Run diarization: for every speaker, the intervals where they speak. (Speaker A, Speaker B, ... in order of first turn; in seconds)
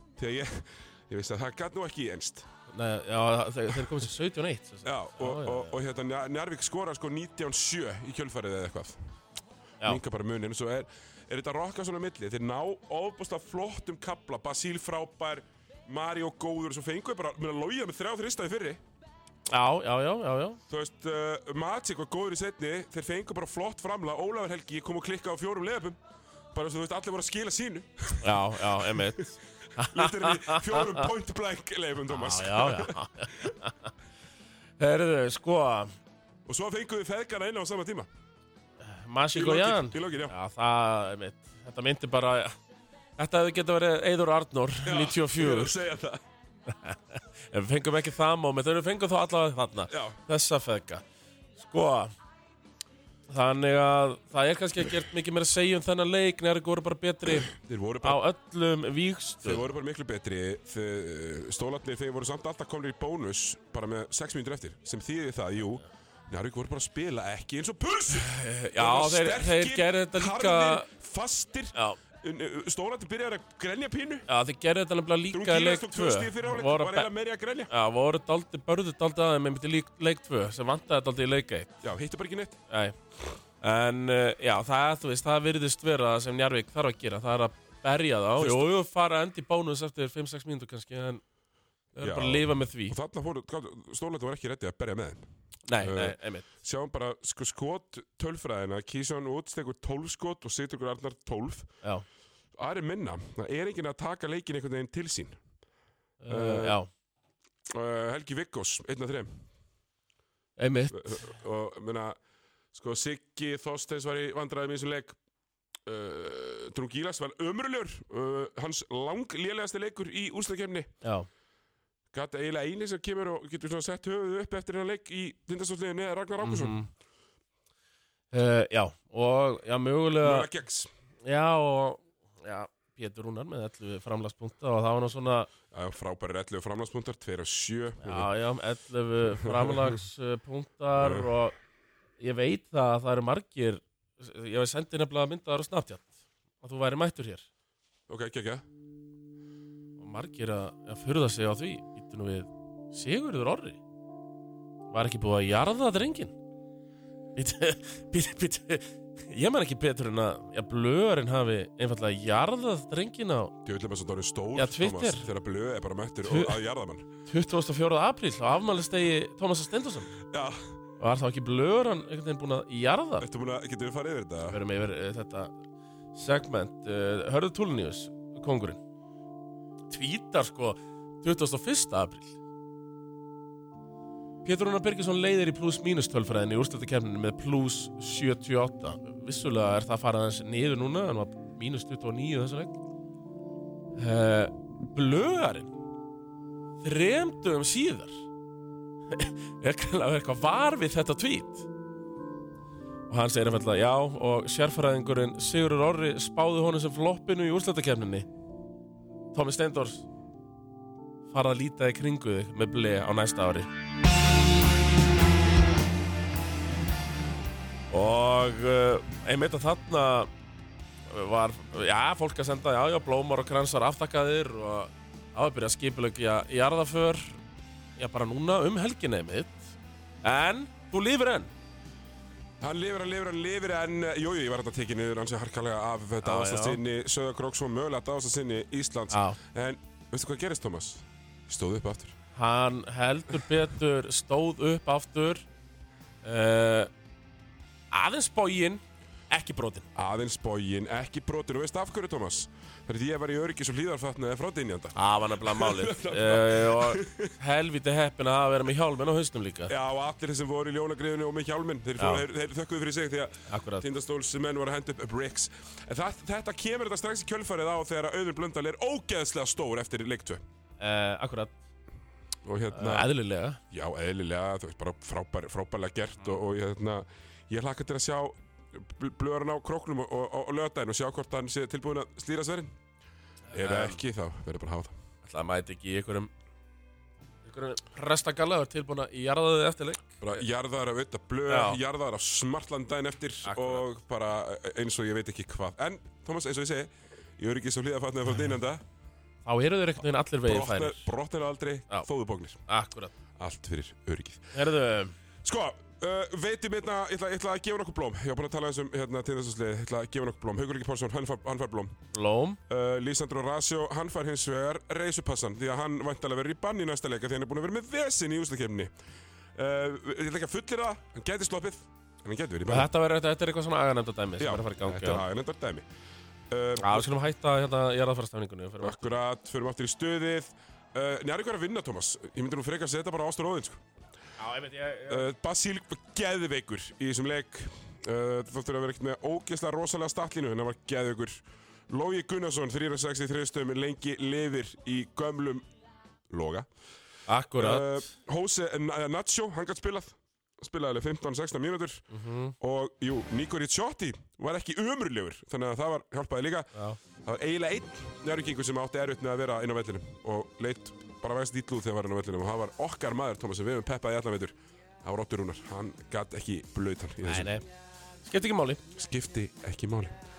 Speaker A: 0.2-2.5, 4.8-9.0, 9.8-18.8, 20.7-26.0, 26.5-29.2, 29.8-33.5, 36.5-38.1, 39.3-40.3, 44.9-46.2, 49.9-50.2, 57.4-58.2, 59.5-74.3, 75.3-77.7, 81.8-82.6, 88.4-88.7, 92.0-95.2, 95.8-101.7, 102.6-105.4, 106.3-106.8, 107.7-109.4, 110.9-112.2, 112.7-115.2, 115.9-120.9, 122.1-126.8, 130.2-130.9, 135.7-138.3, 139.4-140.0, 141.0-141.3, 148.1-148.7, 163.6-167.1, 170.3-170.7, 173.2-174.6, 232.6-242.2, 249.9-257.3, 259.7-270.4, 272.4-273.1, 273.7-282.7, 283.5-284.9, 290.2-298.8, 300.4-302.6, 303.4-304.5, 305.4-312.0, 312.7-318.9, 319.6-322.9, 324.4-325.9, 326.5-327.1, 328.8-333.8, 335.1-345.6, 346.3-346.7, 347.6-352.1, 352.6-356.7, 357.2-367.6, 368.9-370.1
Speaker B: 2.7-5.8, 19.5-20.6, 28.2-31.1, 32.1-33.9, 34.8-35.9, 38.8-42.6, 43.2-45.8, 46.7-51.0, 51.6-52.1, 53.3-59.7, 68.1-70.9, 74.3-77.1, 77.7-81.8, 82.7-83.0, 83.6-91.2, 92.0-93.0, 95.7-96.5, 106.2-106.9, 110.6-111.2, 121.0-121.3, 126.4-126.9, 128.3-130.5, 131.2-135.5, 138.0-141.6, 142.2-147.5, 150.0-153.8, 154.9-156.3, 157.4-163.5, 164.6-165.3, 166.2-166.6, 167.3-170.1, 171.0-173.3, 174.5-175.6, 176.1-178.8, 179.9-182.4, 184.4-192.8, 194.0-195.7, 196.8-198.2, 199.1-201.7, 203.1-208.3, 209.3-210.1, 211.3-213.7, 217.9-220.3, 221.1-227.4, 228.0-231.5, 236.2-236.8, 239.1-239.4, 242.4-245.5, 246.2-246.9, 247.9-249.9, 254.9-259.7, 262.0-262.2, 263.5-263.9, 270.8-271.6, 272.7-273.6, 283.5-284.0, 285.2-286.3, 287.4-290.4, 291.5-291.8, 293.4-293.9, 299.4-301.1, 302.7-303.1, 304.5-305.1, 312.1-312.6, 322.7-325.2, 326.8-329.1, 334.4-335.3, 347.3-348.0, 352.1-352.6, 356.7-357.0, 367.2-367.6, 368.2-368.8